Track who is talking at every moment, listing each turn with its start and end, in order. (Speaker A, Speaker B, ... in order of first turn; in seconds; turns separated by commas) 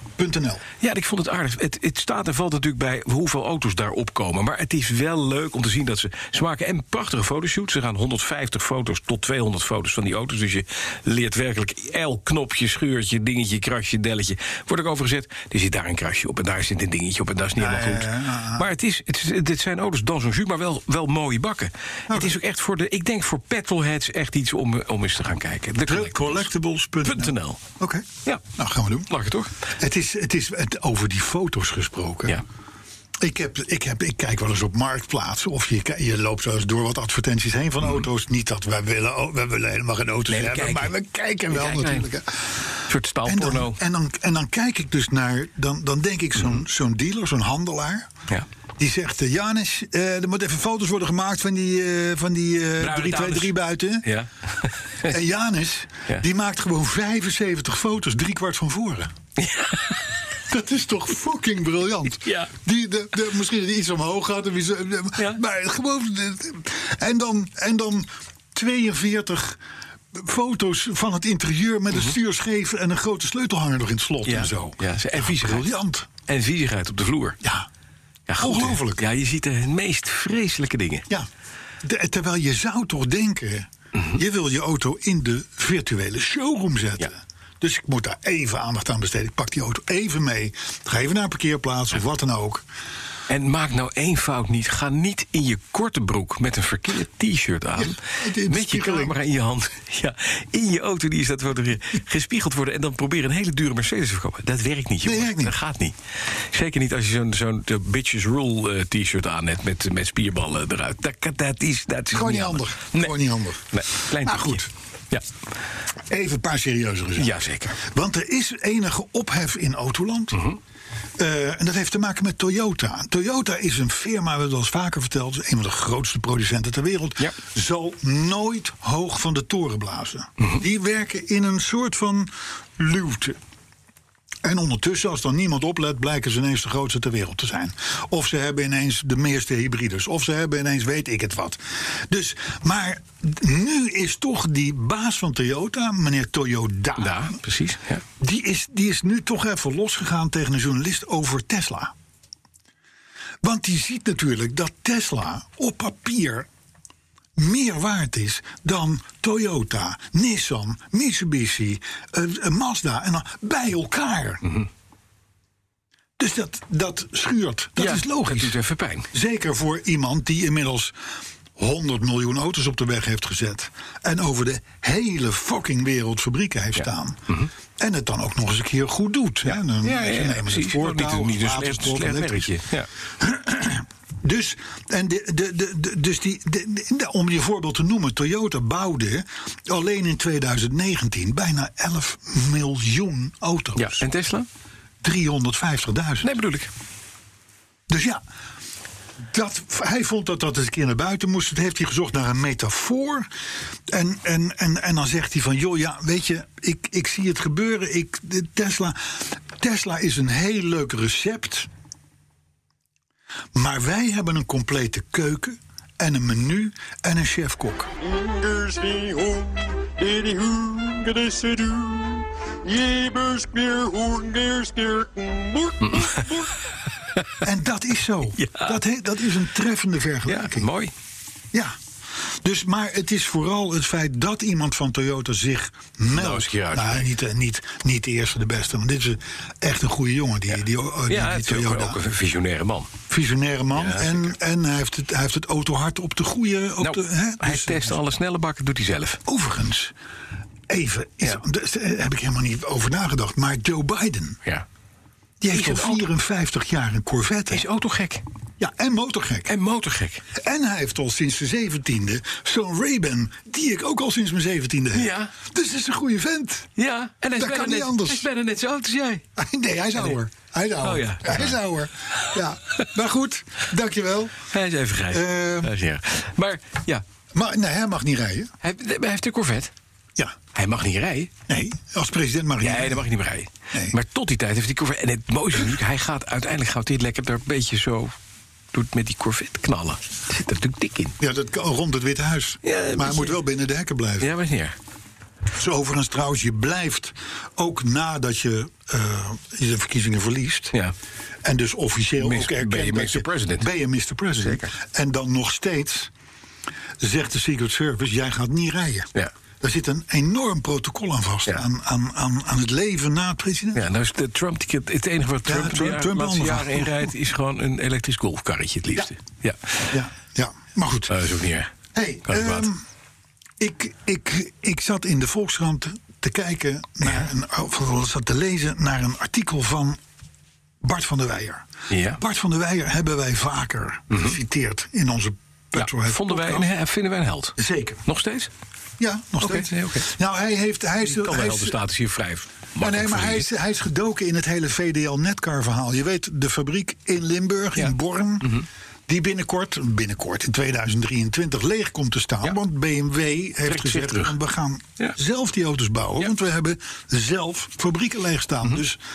Speaker A: 0.2-0.6, Speaker B: 0.8-26.5, Speaker A: 17.6-18.7, Speaker A: 22.1-22.3, Speaker A: 25.9-29.1, Speaker B: 27.0-27.6, Speaker B: 29.1-29.5, Speaker A: 29.8-32.4, Speaker A: 33.2-42.7, Speaker B: 40.3-40.9, Speaker B: 41.5-42.1, Speaker B: 42.9-43.8, Speaker A: 43.2-48.1, Speaker A: 48.8-54.1, Speaker B: 52.8-55.1, Speaker A: 55.0-59.1, Speaker B: 59.4-60.0, Speaker A: 60.5-69.6, Speaker B: 62.2-62.5, Speaker A: 70.1-76.1, Speaker B: 74.2-75.7, Speaker B: 76.3-77.4, Speaker A: 77.4-77.7, Speaker B: 78.3-81.1, Speaker A: 78.4-79.0, Speaker A: 81.8-92.6, Speaker B: 93.3-113.2, Speaker A: 97.8-99.2, Speaker A: 105.0-105.5, Speaker A: 112.1-114.7, Speaker B: 113.7-115.2, Speaker A: 116.1-120.4, Speaker B: 117.2-117.8, Speaker B: 120.3-120.6, Speaker A: 121.2-133.4, Speaker A: 134.4-147.3, Speaker B: 147.0-148.0, Speaker A: 148.2-151.9, Speaker A: 153.4-156.5, Speaker A: 157.4-164.4, Speaker A: 166.2-168.6, Speaker B: 167.8-169.1, Speaker A: 169.1-170.9, Speaker A: 171.6-177.2, Speaker B: 176.8-177.5, Speaker A: 177.8-182.5, Speaker B: 179.5-182.9, Speaker A: 183.2-194.0, Speaker B: 193.8-194.5, Speaker A: 195.0-196.3, Speaker B: 196.2-196.7, Speaker A: 197.9-198.2, Speaker A: 199.3-203.3, Speaker A: 203.9-211.7, Speaker A: 213.5-217.9, Speaker C: 218.0-226.5, Speaker B: 225.8-226.3, Speaker A: 227.4-230.7, Speaker B: 228.4-228.8, Speaker B: 230.2-230.9, Speaker A: 232.4-242.0, Speaker B: 236.1-237.1, Speaker B: 241.1-242.9, Speaker A: 243.1-247.9, Speaker B: 243.8-244.3, Speaker B: 246.8-249.2, Speaker A: 249.2-249.9, Speaker A: 250.7-254.4, Speaker A: 255.4-257.6, Speaker B: 255.5-256.1, Speaker B: 257.5-258.2, Speaker A: 258.6-259.5, Speaker B: 259.5-260.2, Speaker A: 260.3-266.7, Speaker B: 264.9-265.3, Speaker B: 266.8-269.2, Speaker A: 267.4-268.3, Speaker A: 269.4-274.4, Speaker B: 270.8-271.6, Speaker B: 274.5-277.0, Speaker A: 275.1-275.7, Speaker A: 277.3-278.5, Speaker B: 278.6-279.7, Speaker B: 280.5-281.3, Speaker A: 281.5-283.1, Speaker B: 282.6-288.1, Speaker B: 288.7-291.1, Speaker A: 291.2-294.3, Speaker B: 292.6-293.4, Speaker B: 294.2-294.7, Speaker A: 295.5-300.7, Speaker A: 301.4-306.1, Speaker B: 302.2-303.7, Speaker B: 304.4-304.7, Speaker A: 307.0-309.1, Speaker A: 309.6-313.8, Speaker B: 313.7-319.9, Speaker A: 315.4-317.1, Speaker A: 319.9-321.2, Speaker B: 321.1-321.7, Speaker A: 321.9-322.8, Speaker B: 322.3-322.7, Speaker A: 323.6-330.0, Speaker A: 330.8-331.6, Speaker B: 331.9-332.2, Speaker A: 332.2-336.7, Speaker B: 334.1-334.4, Speaker B: 335.7-338.5, Speaker A: 337.6-338.0, Speaker A: 339.0-341.8, Speaker B: 339.4-340.1, Speaker B: 341.1-343.5, Speaker A: 342.8-359.0, Speaker B: 347.8-348.6, Speaker B: 353.6-354.4